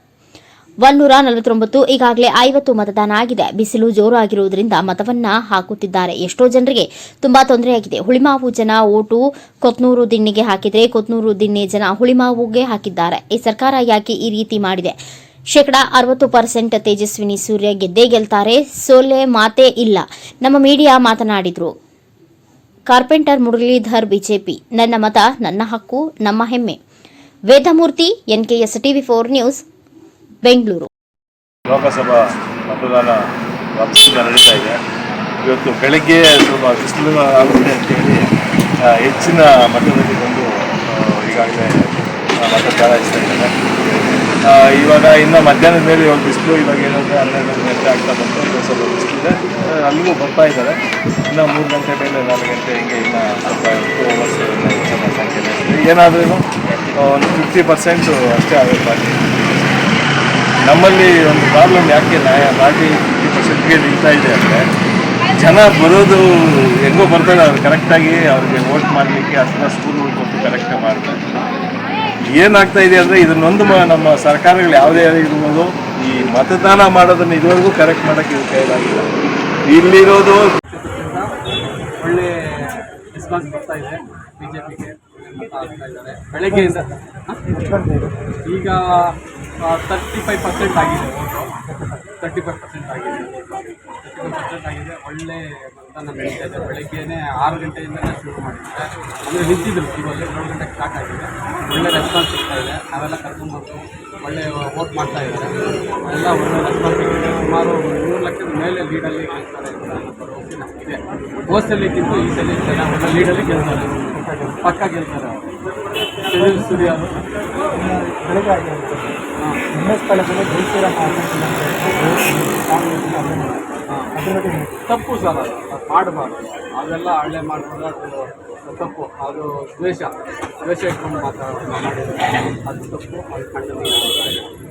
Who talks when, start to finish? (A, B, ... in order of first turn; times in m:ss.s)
0:00.8-0:15.0 A
0:15.5-0:21.7 A
0:22.9-0:26.8 A
0:27.5-0:29.6 A
0:30.4-0:30.9 A
0:31.7-0:33.2 B
0:33.8-0:34.8 B
0:35.4-0:38.3 B
0:38.8-0:43.5 B
0:44.4-0:50.8 B
0:51.3-0:59.8 B
1:00.6-1:04.6 B
1:05.4-1:11.2 B
1:12.3-1:19.1 B
1:19.7-1:20.5 B
1:20.7-1:21.3 C
1:22.0-1:27.4 C
1:26.5-1:28.2 D
1:28.4-1:31.5 C
1:31.6-1:32.1 D
1:32.2-1:54.0 C
1:54.1-1:54.6 D
1:54.6-1:55.5 C
1:56.3-1:57.2 C
1:56.4-1:57.0 D
1:57.7-1:59.2 D
1:59.7-2:04.8 D
2:04.9-2:14.5 C